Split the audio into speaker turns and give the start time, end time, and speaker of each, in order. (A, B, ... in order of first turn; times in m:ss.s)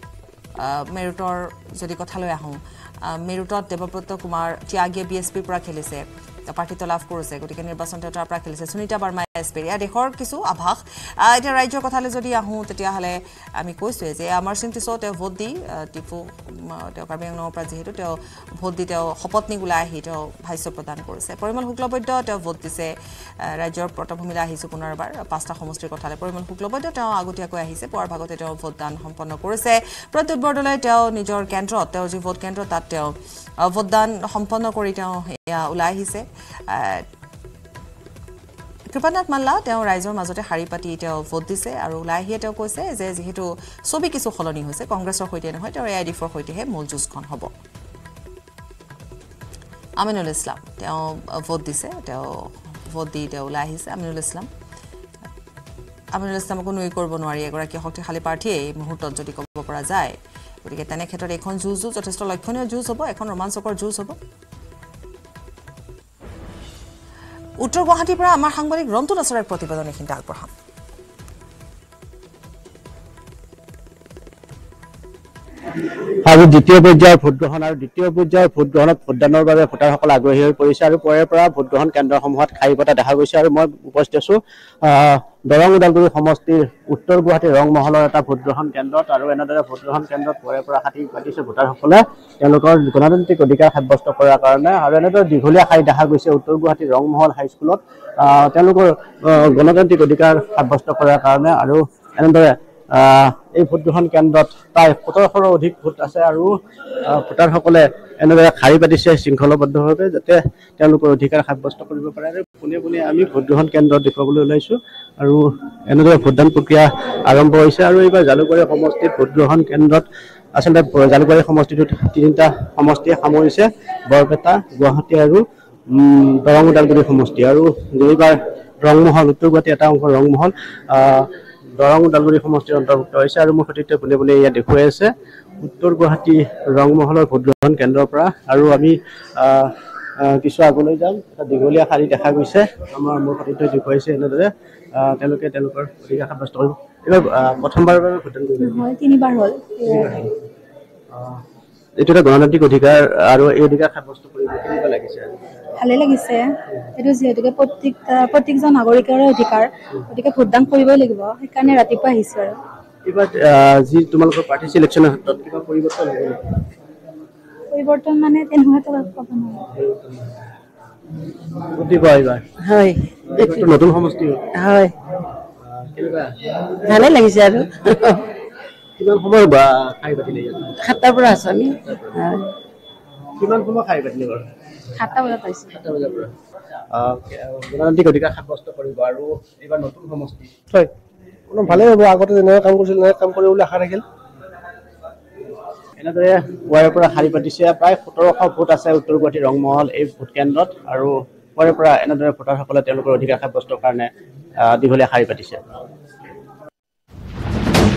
0:00.6-0:37.0 A
0:38.9-0:47.5 A
0:50.0-0:54.5 A
0:56.1-1:04.2 A
1:07.6-1:10.5 A
1:16.2-1:46.5 B
1:47.0-2:28.8 B
2:28.6-2:30.2 C
2:29.9-2:30.2 B
2:31.1-2:31.4 B
2:32.0-2:35.3 B
2:35.8-2:36.4 C
2:37.0-2:42.6 C
2:43.0-2:46.6 B
2:47.7-2:49.6 C
2:51.8-2:52.5 B
2:52.6-2:53.7 D
2:53.3-2:54.5 B
2:54.5-2:54.9 D
2:55.8-2:56.4 B
2:56.9-2:58.2 D
2:59.0-3:00.8 B
3:00.8-3:02.4 D
3:01.8-3:02.2 B
3:03.4-3:04.5 B
3:05.0-3:05.7 C
3:05.7-3:06.3 B
3:06.9-3:10.5 B
3:11.5-3:14.0 E
3:16.0-3:24.1 B
3:24.6-3:25.6 B